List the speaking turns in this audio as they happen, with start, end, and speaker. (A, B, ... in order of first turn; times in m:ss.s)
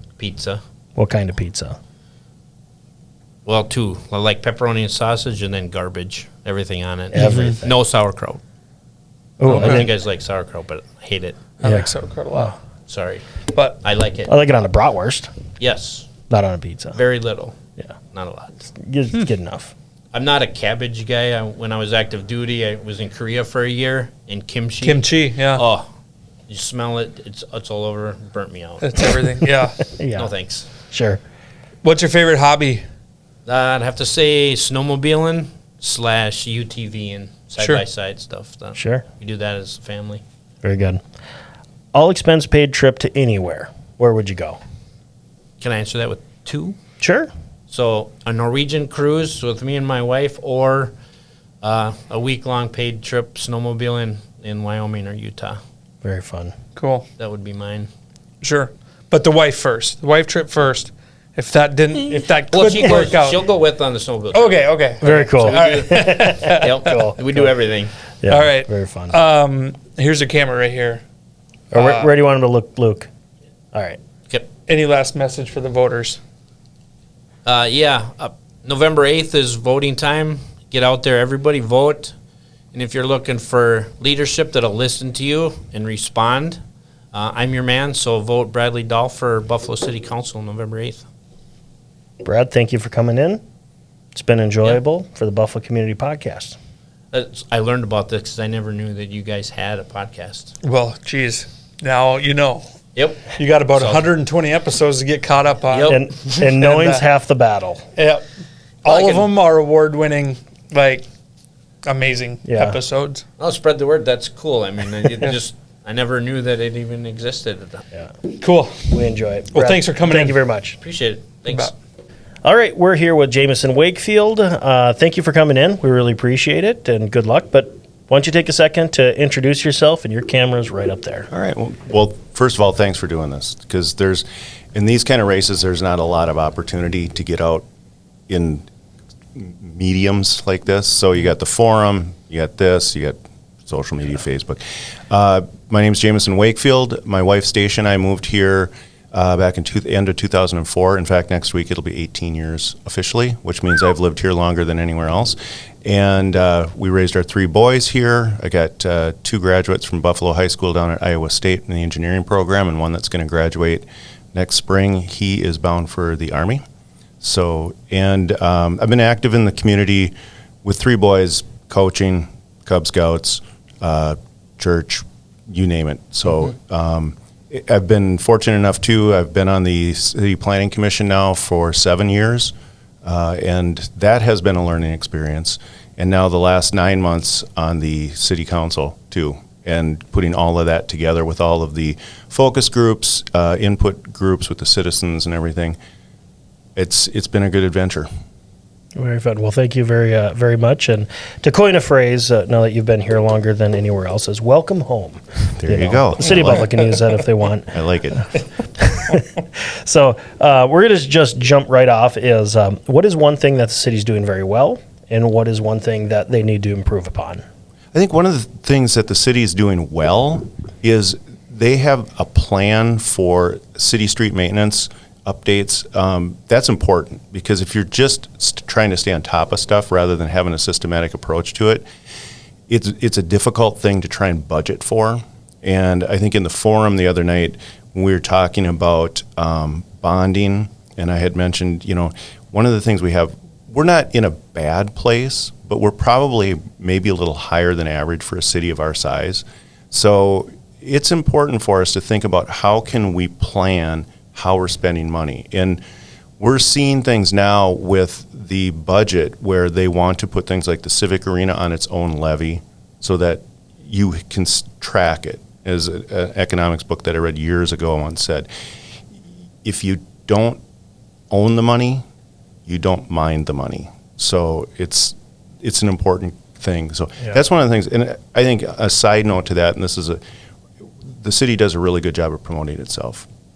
0:00.2-0:00.6 A
0:01.0-0:01.8 B
0:03.4-0:08.4 A
0:07.1-0:07.7 B
0:09.4-0:09.9 B
0:09.4-0:11.4 A
0:09.4-0:09.9 C
0:11.6-0:12.5 C
0:11.6-0:12.5 B
0:12.9-0:13.2 A
0:13.5-0:13.8 C
0:13.8-0:14.3 A
0:14.3-0:15.3 B
0:15.6-0:16.1 A
0:16.3-0:17.0 B
0:17.0-0:17.5 A
0:18.1-0:18.7 A
0:18.7-0:19.7 B
0:20.1-0:25.9 A
0:24.8-0:25.6 C
0:26.5-0:29.0 A
0:28.8-0:29.8 C
0:30.0-0:30.3 B
0:30.2-0:30.7 A
0:30.9-0:31.2 B
0:31.8-0:32.8 C
0:33.4-0:40.2 A
0:38.8-0:39.0 B
0:40.6-0:41.0 B
0:41.9-0:44.6 B
0:45.6-0:46.8 A
0:47.0-0:47.3 B
0:47.7-0:50.9 A
0:51.6-0:55.6 A
0:56.0-0:56.5 B
0:56.8-0:57.0 C
0:57.2-0:57.9 A
0:58.4-1:03.4 C
1:02.5-1:07.9 A
1:04.3-1:06.9 C
1:05.0-1:07.5 B
1:08.2-1:09.2 B
1:08.3-1:11.0 C
1:11.7-1:13.1 B
1:11.7-1:12.1 C
1:13.7-1:14.0 B
1:14.7-1:16.2 C
1:17.4-1:22.1 A
1:22.7-1:26.6 A
1:27.1-1:31.0 A
1:32.2-1:33.4 B
1:34.1-1:36.6 B
1:37.1-1:40.5 A
1:40.6-1:42.6 C
1:42.9-1:44.1 A
1:43.3-1:47.0 C
1:45.7-1:46.4 A
1:45.9-1:47.8 B
1:48.0-1:48.2 C
1:48.8-1:51.1 C
1:48.8-1:49.3 A
1:51.8-1:53.2 C
1:52.4-1:52.8 B
1:53.4-1:57.8 A
1:58.4-1:58.9 C
1:58.9-2:00.8 B
1:59.5-2:00.4 C
2:00.8-2:01.7 A
2:02.4-2:11.3 B
2:11.3-2:17.7 D
2:18.3-2:18.7 D
2:19.3-2:46.6 D
2:47.2-3:15.8 D
3:16.8-3:18.1 D
3:19.0-3:27.7 B
3:25.5-3:27.0 D
3:27.7-3:28.3 D
3:28.3-3:37.4 B
3:37.9-3:51.8 D
3:52.7-4:15.8 D
4:16.4-4:28.5 D
4:29.6-4:30.6 D
4:31.3-4:32.0 D
4:32.6-4:40.2 D
4:41.0-4:43.3 D